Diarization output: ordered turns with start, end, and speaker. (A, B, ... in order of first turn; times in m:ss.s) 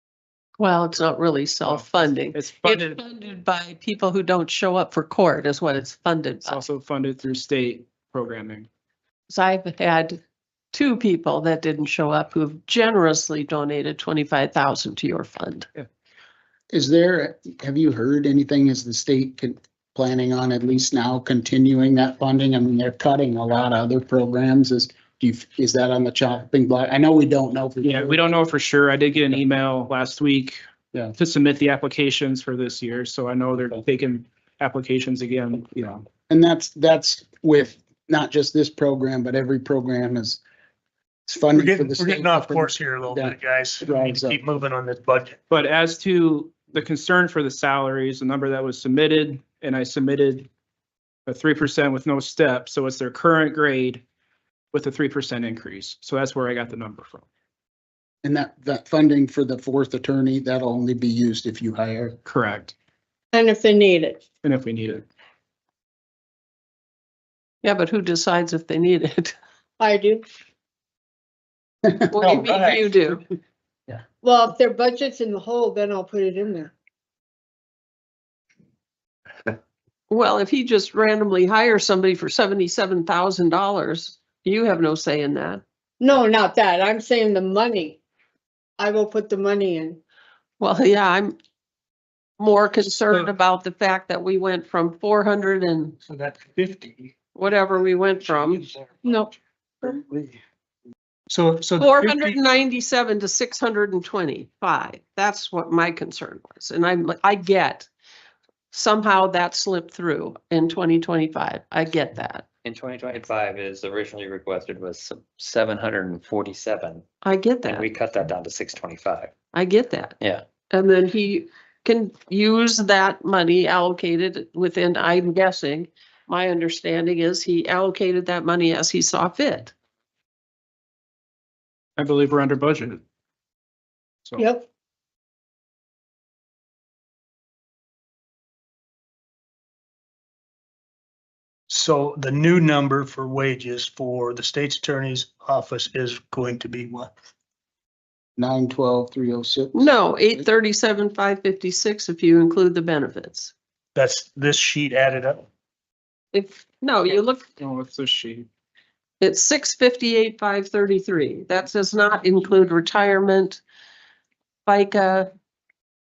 0:00.6-0:06.6 A
0:01.7-0:03.0 B
0:06.4-0:08.7 B
0:09.3-0:10.2 A
0:10.7-0:15.7 A
0:16.7-0:28.2 C
0:27.8-0:30.6 B
0:31.2-0:35.7 B
0:35.8-0:40.4 C
0:41.3-0:44.4 C
0:41.5-0:45.4 D
0:45.5-0:50.5 B
0:51.3-0:54.0 B
0:54.7-0:57.3 B
0:58.2-1:02.2 C
1:02.2-1:02.8 B
1:03.3-1:04.2 E
1:04.4-1:05.0 B
1:07.6-1:09.3 A
1:09.8-1:10.2 E
1:12.1-1:13.2 A
1:12.2-1:12.8 D
1:14.2-1:16.7 E
1:20.1-1:25.6 A
1:26.0-1:28.0 E
1:28.8-1:30.0 E
1:30.6-1:31.4 A
1:32.4-1:36.0 A
1:36.1-1:37.1 D
1:37.4-1:38.7 A
1:38.4-1:38.8 D
1:39.0-1:39.3 E
1:40.0-1:40.3 D
1:41.3-1:42.4 D
1:41.8-1:47.9 A
1:48.7-1:52.5 A
1:52.6-1:57.0 F
1:57.2-1:57.9 A
1:57.6-1:59.3 F
1:59.5-2:00.2 A
2:00.7-2:09.7 A
2:12.0-2:13.0 B
2:14.4-2:14.7 E
2:21.7-2:27.1 D
2:28.4-2:30.5 C
2:29.7-2:33.5 A
2:34.0-2:35.5 D
2:36.3-2:37.4 A
2:37.6-2:38.5 B
2:39.2-2:43.6 A
2:44.7-2:45.3 A